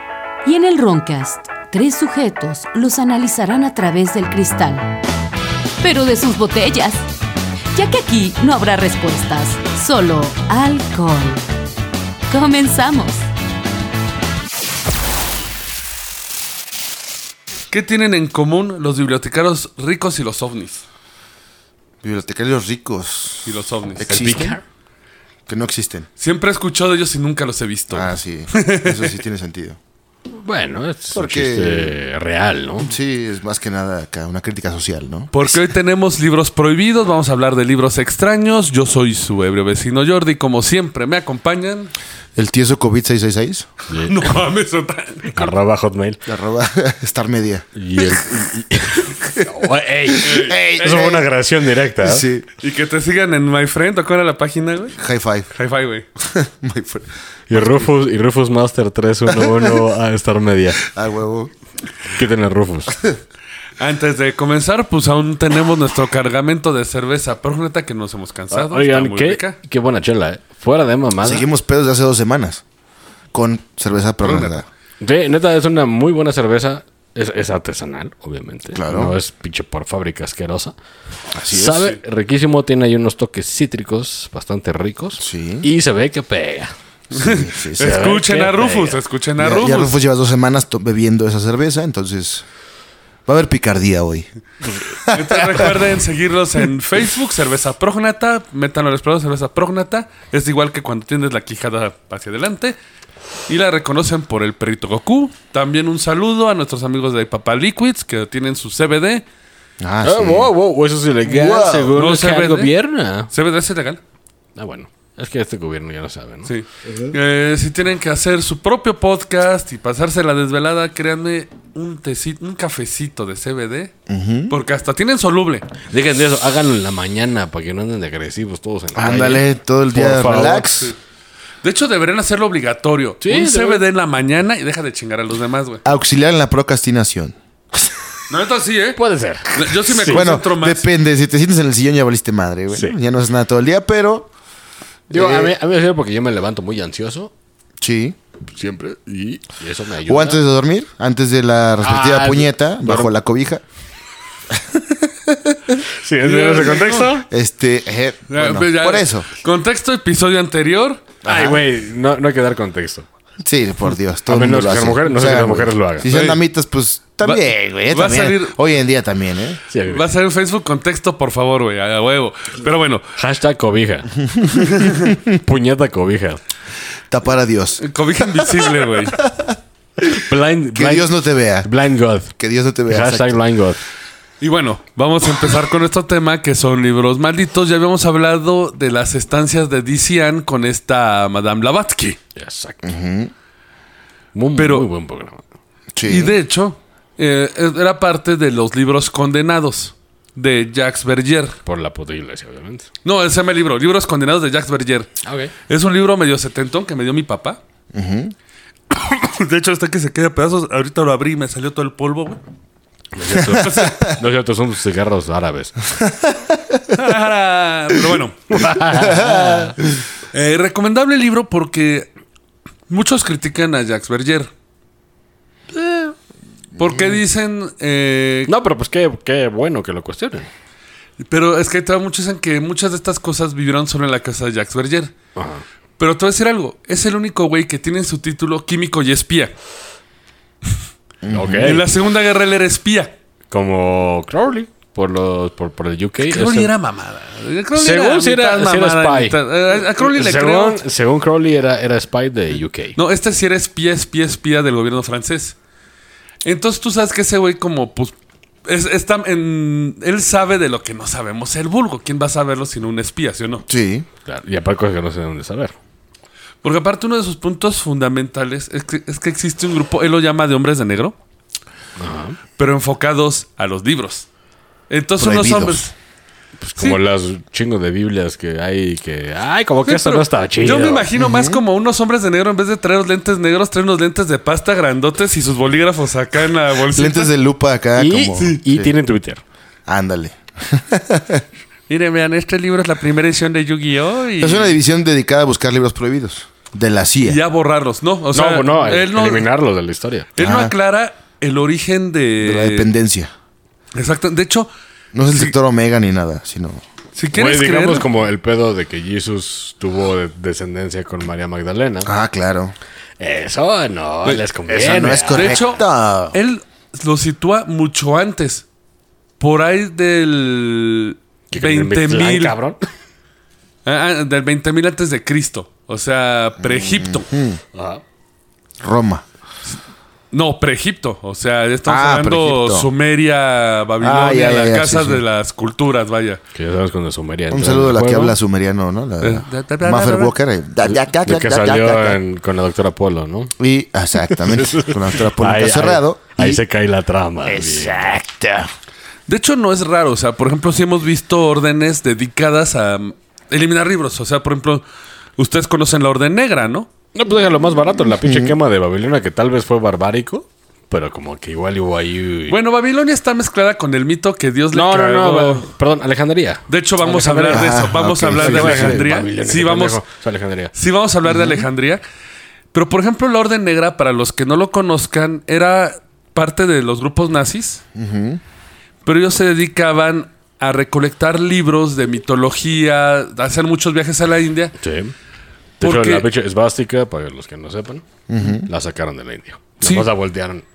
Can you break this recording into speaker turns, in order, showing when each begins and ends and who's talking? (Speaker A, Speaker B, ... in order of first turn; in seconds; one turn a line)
Speaker A: 0.4-5.0
Speaker A: 5.8-7.1
Speaker A: 7.7-11.4
Speaker A: 12.3-13.2
Speaker B: 17.7-20.8
Speaker C: 22.0-24.6
Speaker B: 23.4-24.2
Speaker D: 24.0-24.6
Speaker C: 25.5-26.1
Speaker B: 26.2-29.1
Speaker C: 27.9-29.8
Speaker D: 30.3-32.9
Speaker C: 31.1-31.9
Speaker C: 32.9-35.3
Speaker B: 35.3-41.9
Speaker C: 42.3-43.7
Speaker D: 43.9-44.3
Speaker B: 44.1-45.5
Speaker D: 45.3-46.2
Speaker C: 46.3-48.3
Speaker D: 47.8-52.3
Speaker C: 49.2-49.5
Speaker C: 50.1-51.2
Speaker B: 50.2-50.7
Speaker C: 52.0-52.5
Speaker B: 52.6-55.0
Speaker C: 55.0-55.5
Speaker B: 55.5-56.0
Speaker C: 56.2-57.9
Speaker D: 57.5-60.8
Speaker C: 59.3-59.8
Speaker C: 60.8-61.5
Speaker D: 62.1-63.0
Speaker B: 63.8-69.6
Speaker D: 68.5-71.5
Speaker C: 71.2-72.6
Speaker C: 73.3-74.7
Speaker D: 75.0-80.7
Speaker C: 78.7-79.2
Speaker C: 81.3-81.9
Speaker D: 81.4-86.7
Speaker C: 85.2-85.7
Speaker B: 87.1-89.9
Speaker C: 87.1-88.0
Speaker D: 87.8-89.0
Speaker C: 89.4-92.4
Speaker C: 93.3-94.3
Speaker C: 94.8-95.7
Speaker B: 95.1-102.8
Speaker B: 103.5-109.2
Speaker C: 109.8-110.5
Speaker D: 110.0-113.3
Speaker C: 111.2-112.0
Speaker B: 111.9-112.7
Speaker B: 113.3-114.0
Speaker D: 114.5-116.5
Speaker B: 116.5-123.9
Speaker C: 124.1-124.5
Speaker B: 124.5-125.7
Speaker D: 125.9-130.8
Speaker C: 128.9-130.9
Speaker B: 131.6-135.8
Speaker D: 133.2-133.8
Speaker C: 135.8-137.9
Speaker B: 138.3-140.8
Speaker D: 138.9-140.3
Speaker C: 140.1-144.3
Speaker D: 142.7-142.9
Speaker C: 145.1-145.5
Speaker D: 145.1-147.3
Speaker C: 147.8-148.2
Speaker D: 148.5-150.4
Speaker C: 150.1-153.6
Speaker D: 151.8-153.1
Speaker C: 154.5-155.8
Speaker D: 156.0-157.3
Speaker B: 156.2-157.1
Speaker C: 157.3-159.3
Speaker B: 158.3-161.0
Speaker C: 161.2-161.6
Speaker D: 161.2-163.1
Speaker C: 163.4-169.6
Speaker D: 164.2-166.2
Speaker B: 166.1-166.3
Speaker B: 167.2-168.6
Speaker D: 169.7-170.1
Speaker B: 169.9-173.1
Speaker D: 173.2-174.2
Speaker C: 174.2-175.2
Speaker B: 174.6-175.1
Speaker D: 175.3-176.4
Speaker C: 177.1-177.8
Speaker B: 177.8-179.2
Speaker C: 178.3-178.6
Speaker C: 179.2-179.6
Speaker D: 180.1-182.3
Speaker C: 180.7-181.7
Speaker C: 182.4-183.3
Speaker D: 182.9-183.8
Speaker B: 184.4-192.2
Speaker D: 192.3-192.9
Speaker C: 192.8-193.3
Speaker D: 194.3-195.4
Speaker B: 194.5-194.9
Speaker C: 195.9-196.3
Speaker B: 196.0-201.6
Speaker D: 201.7-202.9
Speaker B: 203.0-205.1
Speaker D: 205.2-205.5
Speaker B: 205.7-207.6
Speaker C: 207.9-208.3
Speaker B: 208.9-212.4
Speaker D: 213.1-215.8
Speaker C: 213.3-214.2
Speaker B: 213.6-213.9
Speaker C: 215.9-217.1
Speaker B: 216.9-218.7
Speaker D: 218.5-219.8
Speaker C: 218.9-220.0
Speaker B: 220.3-222.1
Speaker B: 222.9-224.5
Speaker D: 225.7-226.1
Speaker C: 226.8-227.2
Speaker B: 226.8-228.5
Speaker D: 228.5-230.5
Speaker B: 231.2-235.1
Speaker D: 235.3-235.6
Speaker B: 236.0-239.5
Speaker C: 241.2-241.8
Speaker D: 241.3-241.9
Speaker B: 241.6-243.1
Speaker D: 243.5-246.7
Speaker B: 246.2-250.8
Speaker D: 247.7-253.0
Speaker B: 252.9-255.6
Speaker B: 256.4-263.6
Speaker C: 263.7-264.1
Speaker D: 264.2-265.7
Speaker B: 266.6-271.1
Speaker D: 272.0-272.4
Speaker B: 272.6-274.3
Speaker B: 274.9-275.9
Speaker C: 275.2-275.8
Speaker D: 276.6-281.1
Speaker B: 279.9-287.3
Speaker C: 281.1-281.6
Speaker C: 286.9-288.9
Speaker D: 288.0-289.4
Speaker C: 289.9-291.4
Speaker B: 291.9-294.8
Speaker C: 294.4-297.4
Speaker B: 297.2-299.5
Speaker D: 298.3-300.3
Speaker B: 300.4-302.9
Speaker C: 300.4-300.7
Speaker C: 302.4-303.3
Speaker B: 303.9-304.7
Speaker C: 305.1-306.8
Speaker B: 307.1-308.1
Speaker D: 307.3-312.1
Speaker C: 312.0-312.7
Speaker D: 313.2-315.6
Speaker C: 314.7-316.4
Speaker B: 315.3-315.8
Speaker B: 316.3-318.6
Speaker B: 319.4-322.5
Speaker D: 321.5-322.8
Speaker B: 323.8-327.2
Speaker C: 326.6-327.6
Speaker D: 327.7-328.0
Speaker C: 328.8-329.2
Speaker B: 330.3-336.4
Speaker C: 331.9-332.9
Speaker C: 334.0-335.2
Speaker D: 336.5-338.4
Speaker C: 337.5-342.2
Speaker B: 339.2-340.3
Speaker D: 340.8-343.5
Speaker C: 343.6-346.6
Speaker D: 344.3-348.2
Speaker C: 347.4-348.7
Speaker B: 349.3-354.8
Speaker B: 355.4-356.9
Speaker D: 357.1-362.6
Speaker C: 358.2-358.5
Speaker B: 362.5-365.7
Speaker D: 364.7-367.7
Speaker B: 366.7-370.0
Speaker C: 367.5-369.2
Speaker D: 368.4-370.7
Speaker B: 370.7-372.0
Speaker C: 371.3-371.6
Speaker B: 372.7-377.8
Speaker C: 377.9-378.4
Speaker B: 379.0-384.8
Speaker D: 384.8-385.1
Speaker D: 385.8-388.1
Speaker B: 385.8-386.3
Speaker C: 388.3-388.7
Speaker D: 388.6-390.6
Speaker B: 389.8-390.1